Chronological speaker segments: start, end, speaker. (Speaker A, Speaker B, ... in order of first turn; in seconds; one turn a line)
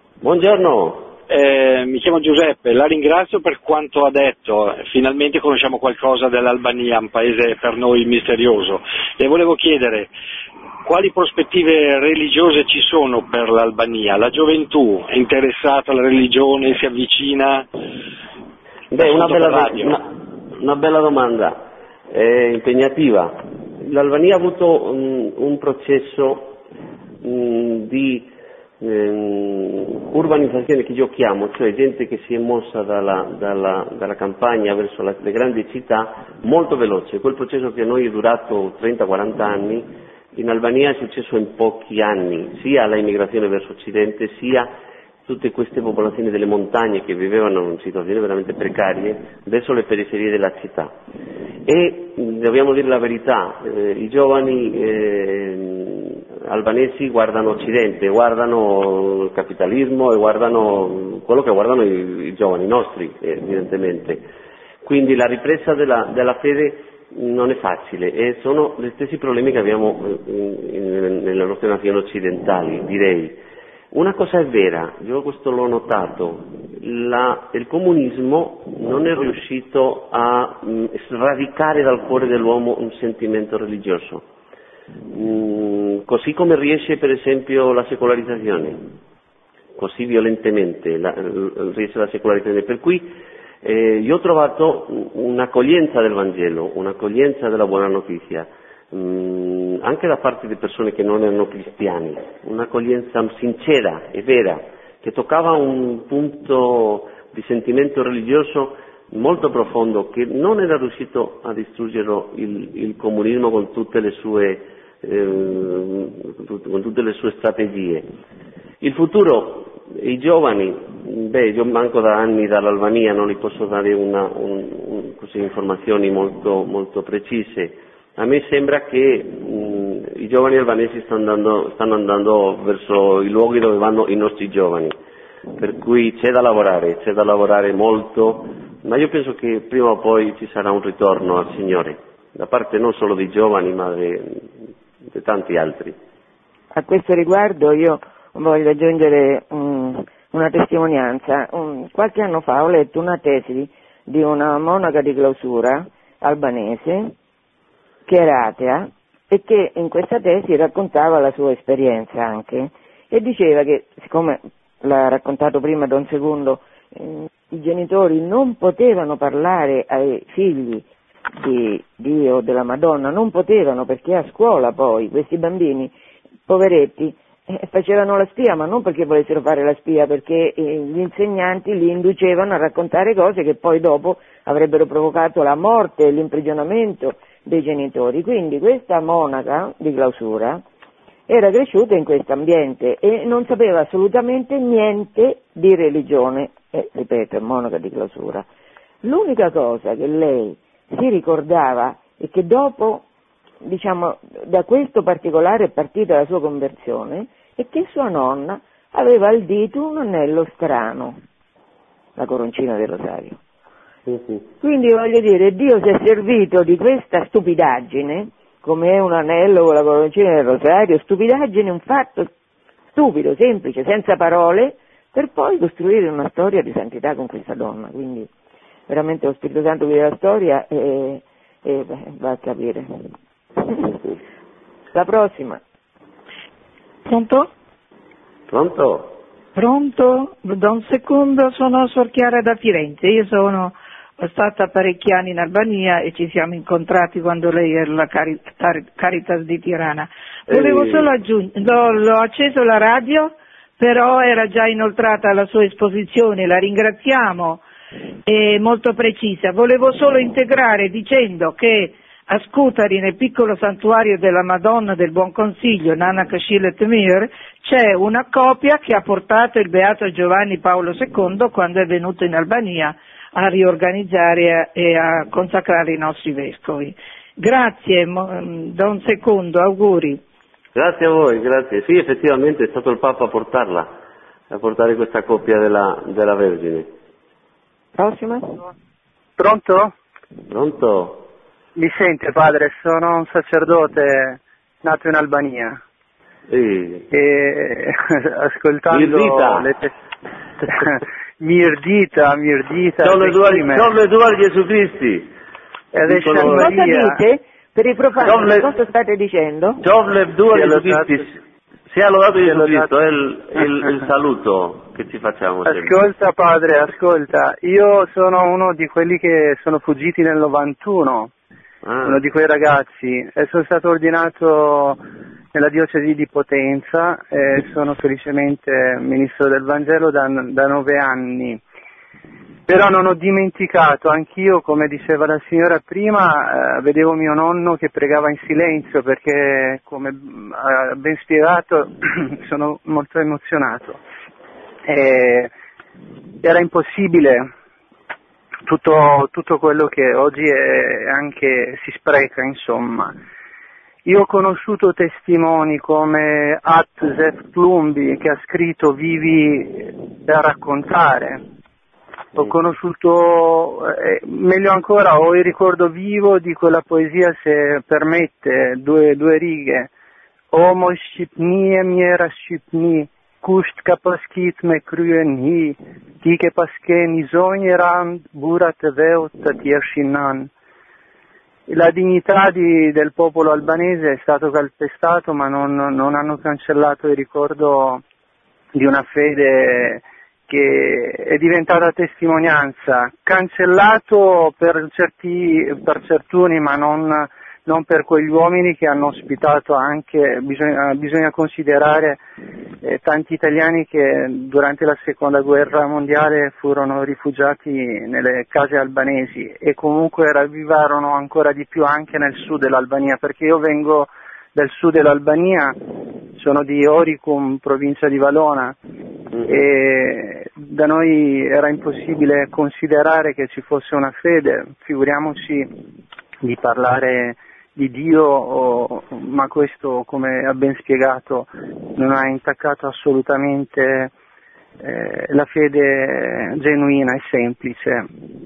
Speaker A: 0.2-1.1
Speaker B: 1.3-10.1
Speaker B: 10.8-17.7
Speaker A: 18.9-26.6
Speaker B: 19.0-20.0
Speaker A: 27.2-44.7
Speaker A: 45.2-50.9
Speaker A: 51.6-64.3
Speaker A: 64.8-73.4
Speaker A: 73.9-84.2
Speaker A: 85.1-88.8
Speaker A: 89.8-118.0
Speaker A: 118.8-134.9
Speaker A: 135.6-144.5
Speaker A: 145.1-146.0
Speaker C: 146.7-157.1
Speaker C: 158.1-170.8
Speaker C: 171.4-175.9
Speaker C: 176.5-190.6
Speaker C: 191.3-198.4
Speaker C: 199.0-203.0
Speaker C: 203.6-211.2
Speaker C: 212.2-213.4
Speaker A: 214.1-214.4
Speaker C: 214.6-222.3
Speaker C: 222.9-228.3
Speaker C: 228.9-232.9
Speaker C: 233.7-234.0
Speaker C: 234.9-235.6
Speaker D: 237.0-237.5
Speaker A: 238.5-239.2
Speaker D: 239.5-257.6
Speaker A: 250.5-251.1
Speaker D: 258.2-280.2
Speaker A: 280.7-283.9
Speaker A: 284.5-286.9
Speaker C: 287.9-288.6
Speaker E: 289.4-289.9
Speaker A: 290.5-291.3
Speaker E: 291.8-295.8
Speaker A: 296.5-297.1
Speaker E: 297.1-299.9
Speaker A: 298.9-299.7
Speaker E: 300.6-303.9
Speaker A: 303.0-305.3
Speaker E: 305.9-307.2
Speaker A: 306.0-306.9
Speaker C: 306.3-309.8
Speaker A: 308.2-308.7
Speaker A: 309.8-311.4
Speaker E: 310.5-311.2
Speaker A: 311.9-316.0
Speaker E: 312.4-312.9
Speaker E: 315.6-321.3
Speaker A: 321.8-322.2
Speaker E: 322.0-325.0
Speaker E: 325.5-331.6
Speaker E: 332.7-344.0
Speaker E: 344.8-345.5
Speaker E: 346.4-347.5
Speaker E: 348.6-353.1
Speaker E: 354.0-361.4
Speaker E: 362.4-369.9
Speaker E: 370.5-380.5
Speaker E: 381.7-388.0
Speaker E: 388.7-402.2
Speaker E: 402.8-415.8
Speaker E: 416.4-418.8
Speaker A: 419.3-419.6
Speaker E: 419.4-425.7
Speaker E: 426.4-434.1
Speaker E: 434.8-438.1